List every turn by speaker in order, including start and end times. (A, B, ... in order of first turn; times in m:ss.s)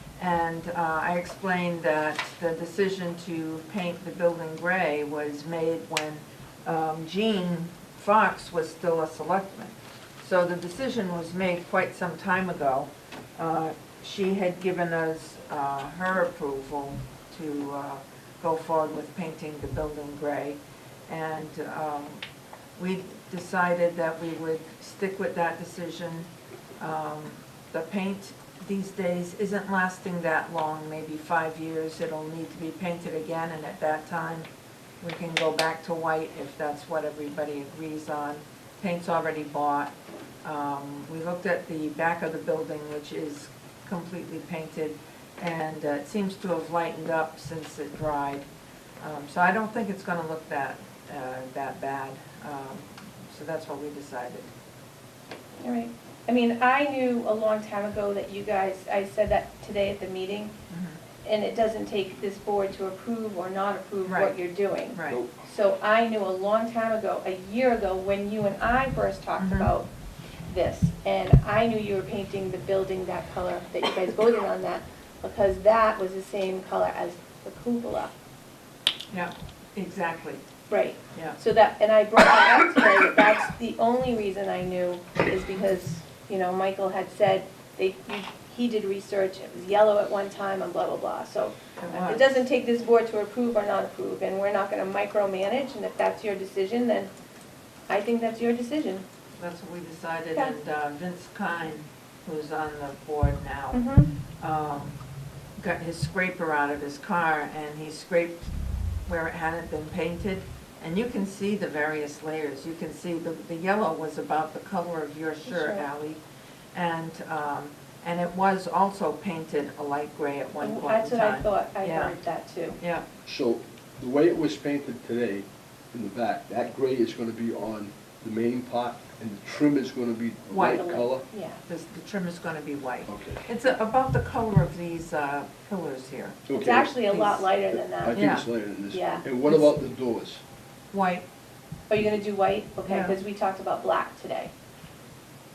0:00.2-0:22.2 A
0:22.8-0:34.5 A
0:35.0-0:39.9 A
0:40.4-0:48.5 A
0:49.0-0:54.5 A
0:55.6-1:00.5 B
1:00.7-1:01.0 A
1:01.2-1:09.9 B
1:04.1-1:04.4 A
1:04.9-1:05.2 A
1:09.4-1:09.7 A
1:10.5-1:18.1 B
1:19.1-1:20.4 A
1:20.7-1:37.1 B
1:31.8-1:32.4 A
1:37.9-1:39.0 B
1:39.4-1:45.0 A
1:43.7-1:44.1 B
1:45.6-1:48.5 A
1:49.1-1:56.2 A
1:55.5-1:55.8 B
1:56.7-2:02.1 A
2:00.6-2:02.8 B
2:02.8-2:03.0 A
2:03.2-2:11.2 C
2:10.5-2:11.0 A
2:10.6-2:11.6 B
2:11.7-2:16.4 A
2:13.1-2:13.4 C
2:16.5-2:16.9 C
2:16.6-2:18.2 B
2:17.1-2:17.5 A
2:18.0-2:20.4 C
2:18.1-2:18.5 A
2:18.9-2:19.3 B
2:19.4-2:19.7 A
2:20.9-2:21.3 A
2:21.9-2:24.5 B
2:22.8-2:23.2 A